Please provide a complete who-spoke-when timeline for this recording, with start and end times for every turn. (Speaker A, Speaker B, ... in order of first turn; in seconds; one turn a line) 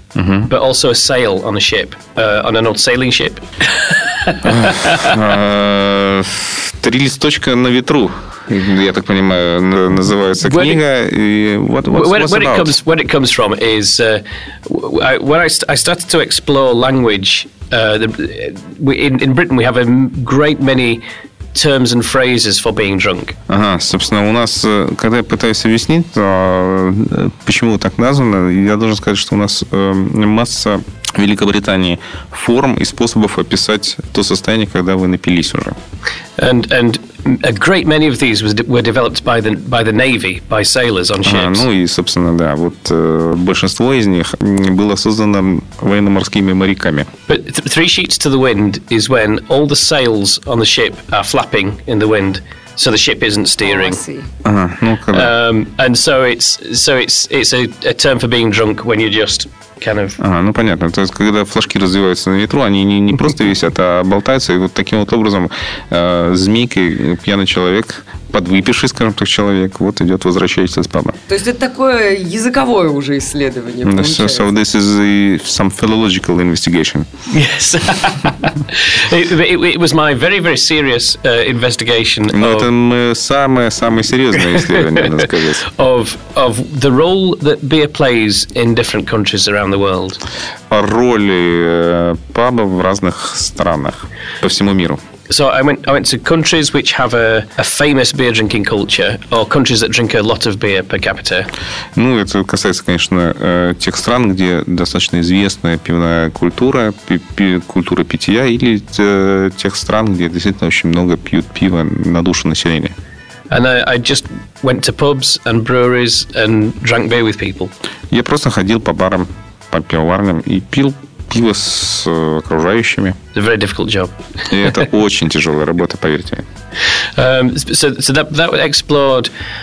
Speaker A: 0.1-0.5
Speaker B: 0.5-5.1
Speaker A: 4.4-12.8
Speaker B: 10.4-10.8
Speaker B: 11.9-21.0
Speaker B: 21.5-23.4
Speaker A: 23.5-35.8
Speaker B: 36.4-41.6
Speaker A: 41.2-47.1
Speaker B: 47.3-54.0
Speaker C: 53.7-54.2
Speaker A: 54.4-55.3
Speaker B: 55.1-60.2
Speaker A: 60.2-71.2
Speaker C: 71.3-74.5
Speaker A: 73.8-77.1
Speaker B: 77.3-82.7
Speaker A: 82.3-85.6
Speaker B: 84.6-90.2
Speaker A: 90.7-95.0
Speaker B: 95.3-101.5
Speaker A: 102.0-112.9
Speaker B: 113.5-117.7
Speaker A: 118.1-123.2
Speaker B: 123.3-124.8
Speaker A: 124.5-126.4
Speaker B: 127.2-129.3